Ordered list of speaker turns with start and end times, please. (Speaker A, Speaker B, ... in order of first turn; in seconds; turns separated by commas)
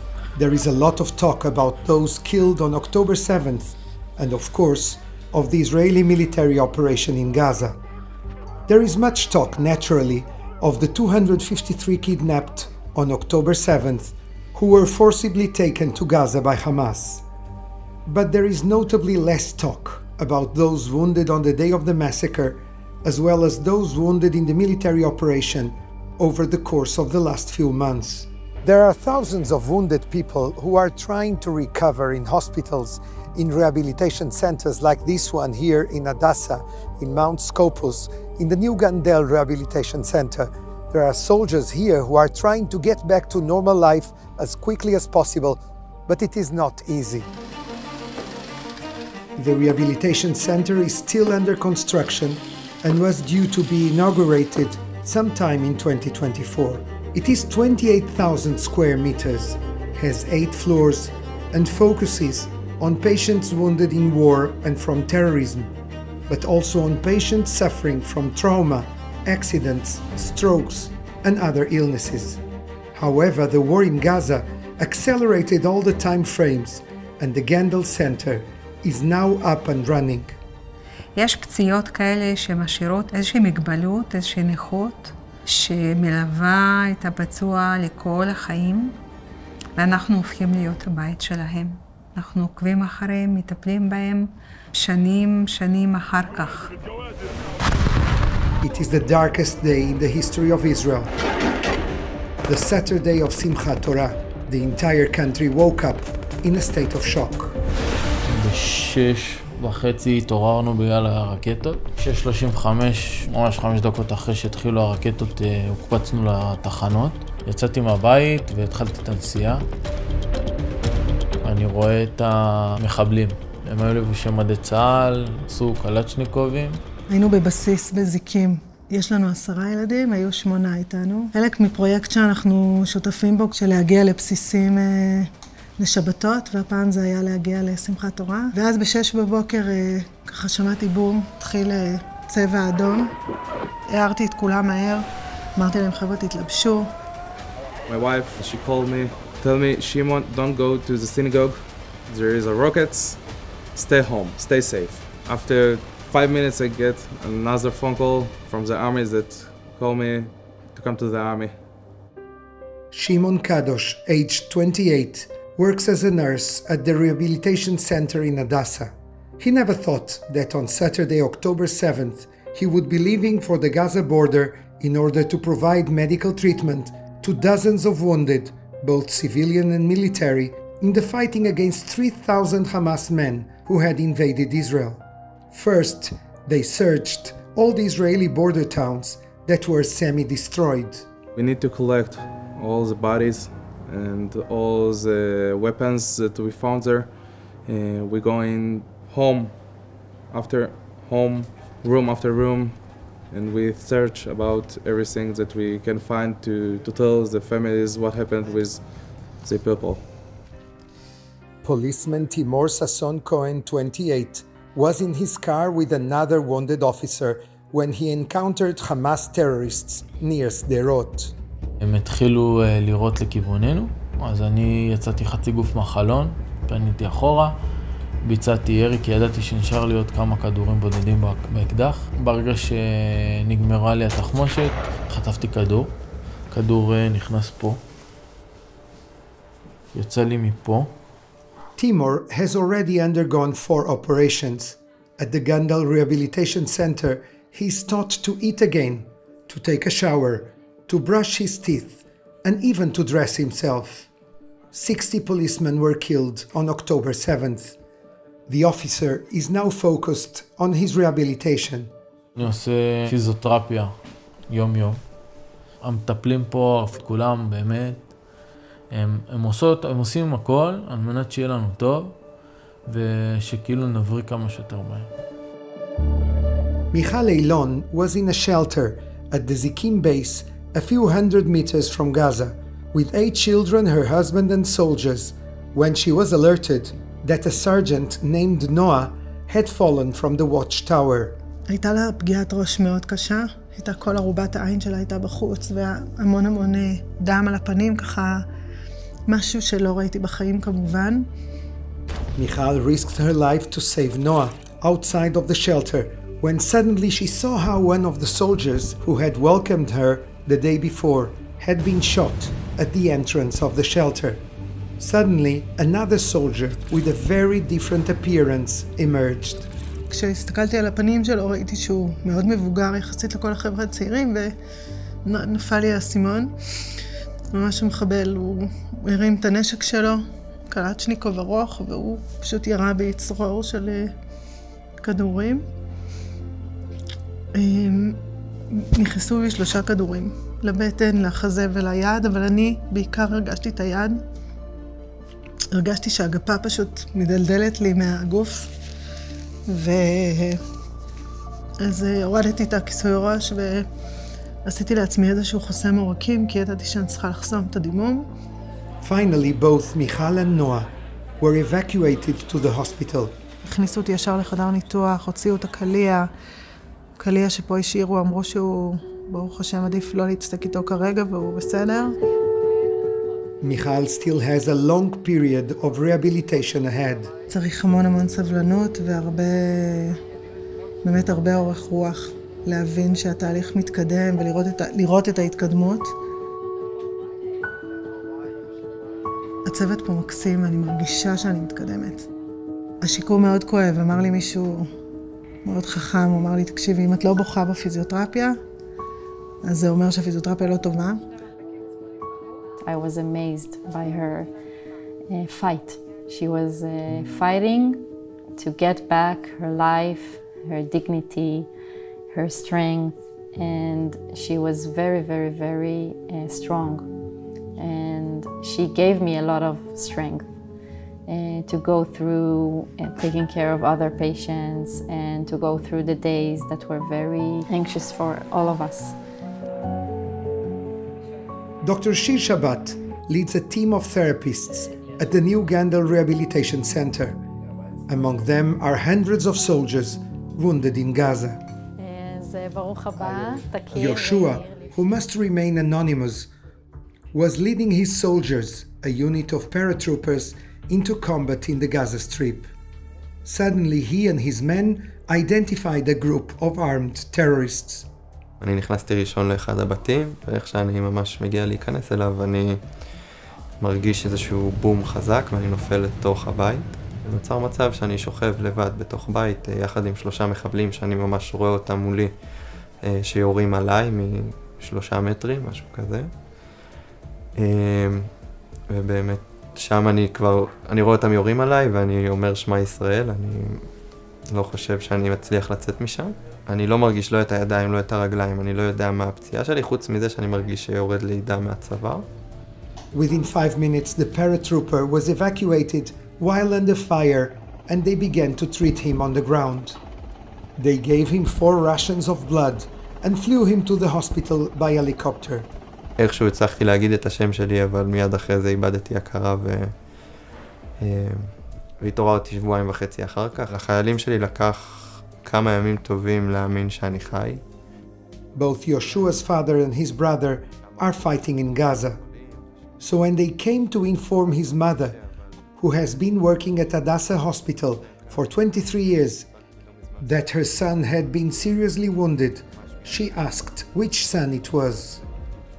Speaker A: 0.4-7.8, Speaker A: 8.7-17.2, Speaker A: 18.1-47.3, Speaker A: 49.4-65.7, Speaker A: 66.3-72.4, Speaker A: 73.0-80.3, Speaker B: 81.2-89.0, Speaker B: 89.8-96.7, Speaker A: 98.6-101.1, Speaker A: 102.5-107.6, Speaker C: 108.3-119.6, Speaker C: 121.5-122.4, Speaker C: 122.9-126.8, Speaker D: 127.1-135.3, Speaker D: 135.8-143.1, Speaker D: 143.9-145.0, Speaker D: 145.6-146.9, Speaker E: 147.9-153.2, Speaker E: 153.8-161.5, Speaker A: 162.9-191.1, Speaker E: 191.4-197.1, Speaker E: 197.7-199.6, Speaker E: 200.3-208.8, Speaker E: 209.4-210.0, Speaker A: 211.6-221.3, Speaker C: 221.8-227.5, Speaker C: 228.2-235.9, Speaker C: 236.5-237.8, Speaker C: 239.9-240.9, Speaker A: 241.8-254.1, Speaker A: 254.7-257.8, Speaker A: 258.5-261.9, Speaker C: 262.4-263.9, Speaker C: 264.5-265.0, Speaker C: 265.8-268.1, Speaker C: 268.9-272.2, Speaker C: 272.9-275.1, Speaker A: 276.9-291.4, Speaker D: 291.7-298.4, Speaker D: 299.3-301.2, Speaker A: 302.4-314.5, Speaker A: 315.0-319.7, Speaker D: 320.1-324.5, Speaker D: 325.2-326.5, Speaker D: 327.5-330.2, Speaker D: 330.7-334.1, Speaker D: 335.0-335.6, Speaker D: 337.6-338.2, Speaker D: 338.8-344.2, Speaker D: 345.8-348.7, Speaker D: 349.7-350.6, Speaker D: 351.8-353.8, Speaker D: 354.6-358.2, Speaker A: 359.0-363.4, Speaker D: 363.6-366.3, Speaker D: 367.2-372.1, Speaker A: 373.6-377.3, Speaker D: 377.5-380.1, Speaker D: 381.0-386.1, Speaker D: 389.6-392.2, Speaker D: 393.0-394.9, Speaker D: 395.6-398.6, Speaker D: 399.6-401.2, Speaker F: 402.8-404.5, Speaker F: 405.3-408.1, Speaker F: 408.6-411.7, Speaker F: 412.3-417.1, Speaker F: 417.8-420.5, Speaker F: 421.3-429.2, Speaker A: 431.8-437.4, Speaker A: 438.1-441.6, Speaker F: 442.0-444.9, Speaker A: 443.9-446.5, Speaker A: 447.3-452.7, Speaker A: 453.4-458.1, Speaker G: 458.6-462.8, Speaker G: 463.8-472.3, Speaker G: 473.0-476.3, Speaker G: 477.6-478.3, Speaker G: 478.9-483.8, Speaker G: 484.5-492.3, Speaker A: 493.1-500.0, Speaker A: 500.8-505.7, Speaker G: 506.2-509.9, Speaker G: 511.0-517.6, Speaker A: 518.5-522.2, Speaker A: 523.0-525.2, Speaker A: 525.8-529.5, Speaker A: 530.2-535.2